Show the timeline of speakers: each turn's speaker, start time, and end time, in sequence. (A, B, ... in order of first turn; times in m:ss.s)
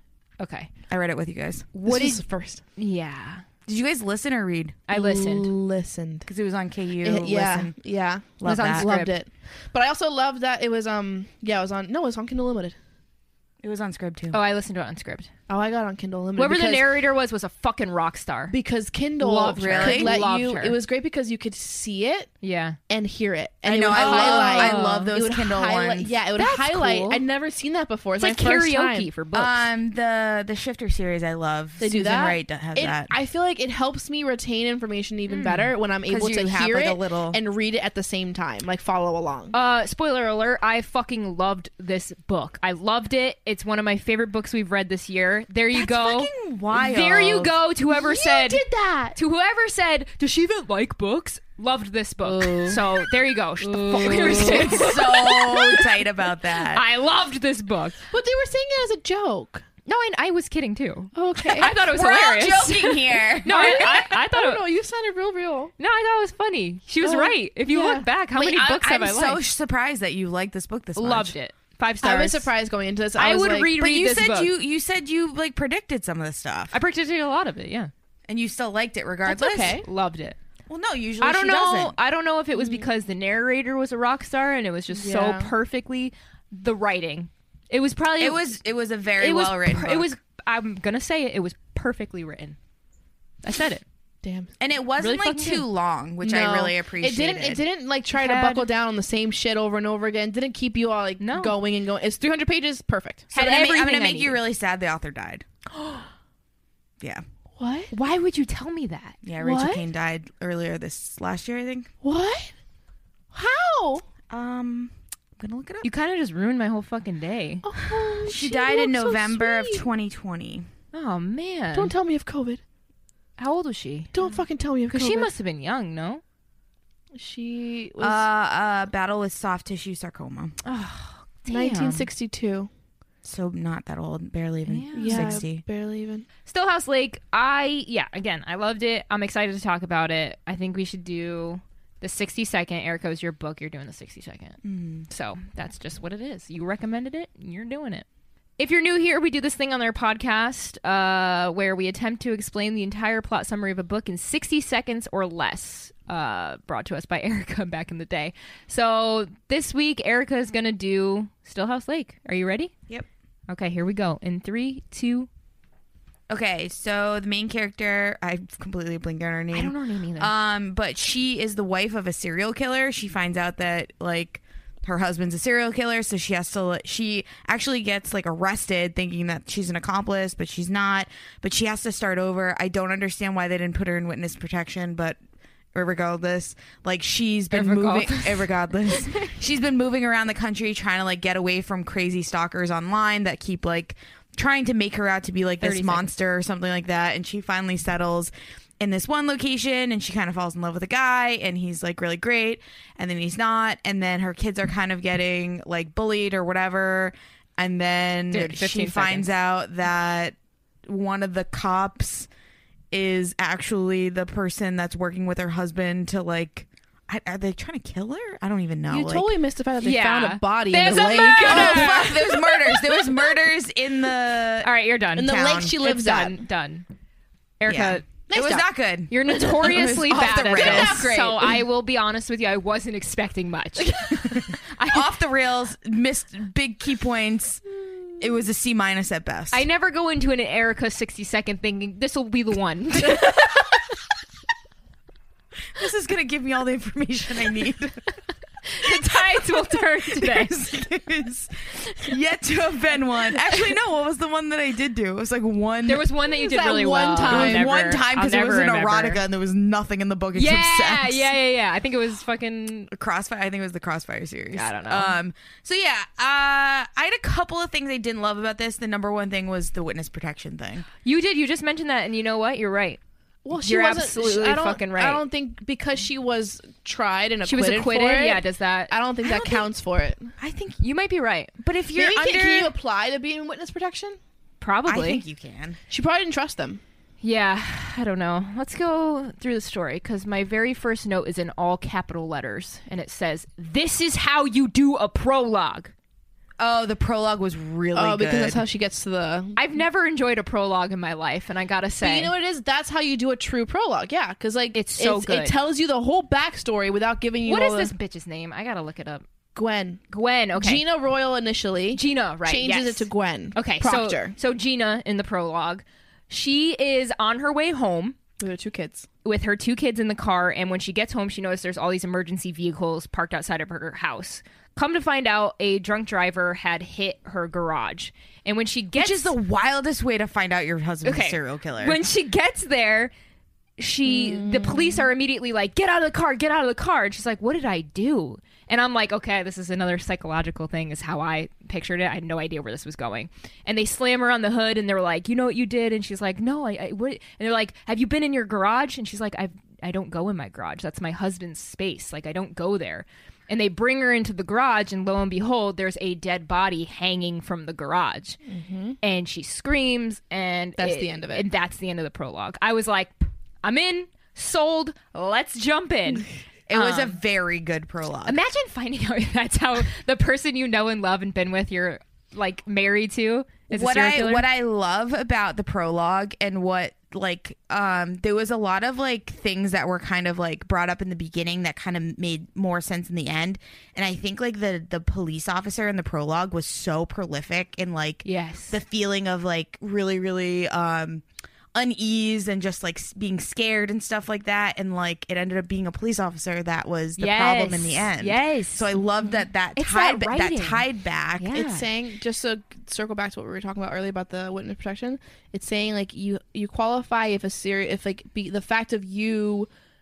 0:00.4-0:00.7 A
0:00.9-0:01.7 B
0:01.8-0:02.2 A
0:01.8-0:02.6 C
0:02.8-0:03.4 A
0:03.7-0:04.8 B
0:04.9-0:05.5 A
0:04.9-0:06.3 C
0:06.3-0:07.8 B
0:07.0-0:12.8 C
0:08.4-0:08.9 B
0:08.4-0:09.1 A
0:13.6-0:14.4 B
0:14.3-0:15.3 A
0:15.5-0:17.0 C
0:16.4-0:18.5 A
0:18.5-0:22.3 C
0:19.2-0:20.8 A
0:19.5-0:20.2 B
0:22.4-0:22.8 A
0:22.9-0:29.1 C
0:23.6-0:26.1 B
0:23.9-0:25.1 A
0:26.4-0:27.2 A
0:28.2-0:29.7 A
0:29.3-0:33.1 B
0:31.8-0:39.5 C
0:35.3-0:35.7 A
0:36.1-0:37.4 B
0:39.5-0:48.6 A
0:45.7-0:47.5 B
0:47.9-0:49.2 C
0:49.2-0:55.9 A
0:52.2-0:52.8 C
0:53.6-0:55.2 C
0:54.0-0:56.9 B
0:56.6-0:58.0 A
0:58.1-0:59.6 C
0:59.9-1:04.6 A
1:01.2-1:01.7 C
1:01.7-1:04.2 B
1:03.4-1:05.7 C
1:05.8-1:09.4 A
1:07.0-1:08.1 C
1:08.3-1:11.4 B
1:11.0-1:12.5 A
1:12.0-1:13.7 C
1:13.2-1:14.5 A
1:13.8-1:16.7 B
1:16.7-1:17.9 A
1:18.3-1:19.8 B
1:19.3-1:19.8 C
1:19.8-1:20.4 A
1:20.7-1:22.0 B
1:21.2-1:28.5 A
1:22.6-1:22.8 C
1:24.9-1:25.5 C
1:28.2-1:30.1 B
1:29.2-1:32.6 A
1:33.4-1:33.8 A
1:34.2-1:34.5 C
1:34.6-1:37.6 B
1:35.0-1:35.6 A
1:36.2-1:43.3 C
1:38.1-1:38.7 A
1:41.2-1:41.5 A
1:43.3-1:44.4 A
1:43.3-1:45.4 B
1:47.6-1:47.9 C
1:47.9-1:49.2 A
1:49.2-1:51.9 B
1:49.4-1:49.9 C
1:52.0-1:52.5 C
1:53.3-1:54.1 C
1:54.3-1:55.9 B
1:55.8-1:57.7 A
1:57.6-1:59.8 C
1:58.3-2:00.7 B
2:00.9-2:01.9 A
2:01.7-2:02.6 C
2:03.4-2:04.1 A
2:04.1-2:05.3 C
2:04.9-2:06.2 A
2:07.2-2:08.3 C
2:08.0-2:10.6 B
2:10.6-2:12.1 A
2:11.5-2:12.7 C
2:13.2-2:15.6 B
2:14.7-2:15.4 A
2:14.9-2:16.3 C
2:16.5-2:28.1 A
2:24.6-2:25.1 B
2:28.6-2:42.7 A
2:43.5-2:45.3 A
2:46.3-3:05.2 B
2:49.5-2:50.3 A
3:05.7-3:30.4 B
3:07.5-3:09.3 A
3:15.6-3:16.1 A
3:28.3-3:29.3 A
3:30.9-3:32.3 B
3:32.9-3:39.3 B
3:38.9-3:42.1 C
3:39.8-3:43.1 A
3:41.4-3:45.8 B
3:44.6-3:46.9 A
3:45.2-3:46.4 C
3:47.6-3:48.1 A
3:47.7-3:51.1 B
3:48.3-3:48.6 C
3:49.1-3:55.1 A
3:49.6-3:51.6 C
3:54.2-3:57.6 B
3:58.2-3:59.6 B
3:59.5-4:03.7 A
4:05.8-4:08.1 B
4:08.7-4:10.6 A
4:08.8-4:16.1 B
4:15.9-4:19.2 A
4:16.2-4:17.7 C
4:17.2-4:21.3 B
4:20.3-4:22.9 A
4:22.9-4:30.9 B
4:24.5-4:25.2 A
4:31.0-4:33.0 A
4:33.4-4:40.3 C
4:33.6-4:35.2 A
4:37.4-4:38.9 A
4:39.2-4:39.6 B
4:40.4-4:40.8 B
4:40.8-4:41.5 A
4:41.6-4:42.7 B
4:42.0-4:44.2 C
4:44.6-4:45.2 A
4:44.9-4:45.8 B
4:45.9-4:46.8 C
4:47.2-4:55.9 A
4:56.6-4:58.6 B
4:58.0-4:59.6 C
4:59.6-5:02.3 A
5:02.0-5:07.9 C
5:04.7-5:05.6 A
5:07.5-5:09.2 A
5:09.6-5:10.0 C
5:10.1-5:10.8 A
5:10.5-5:14.3 C
5:11.9-5:18.2 A
5:18.4-5:19.1 C
5:19.2-5:29.3 A
5:29.0-5:32.0 B
5:31.0-5:33.1 A
5:33.8-5:58.4 A
5:34.1-5:35.1 C
5:58.5-5:59.0 C
5:59.0-6:07.2 A
6:00.8-6:01.5 C
6:06.7-6:08.4 B
6:08.2-6:14.5 A
6:13.7-6:41.6 B
6:28.2-6:28.8 A
6:37.2-6:40.8 A
6:41.4-6:41.9 A
6:41.5-6:49.7 C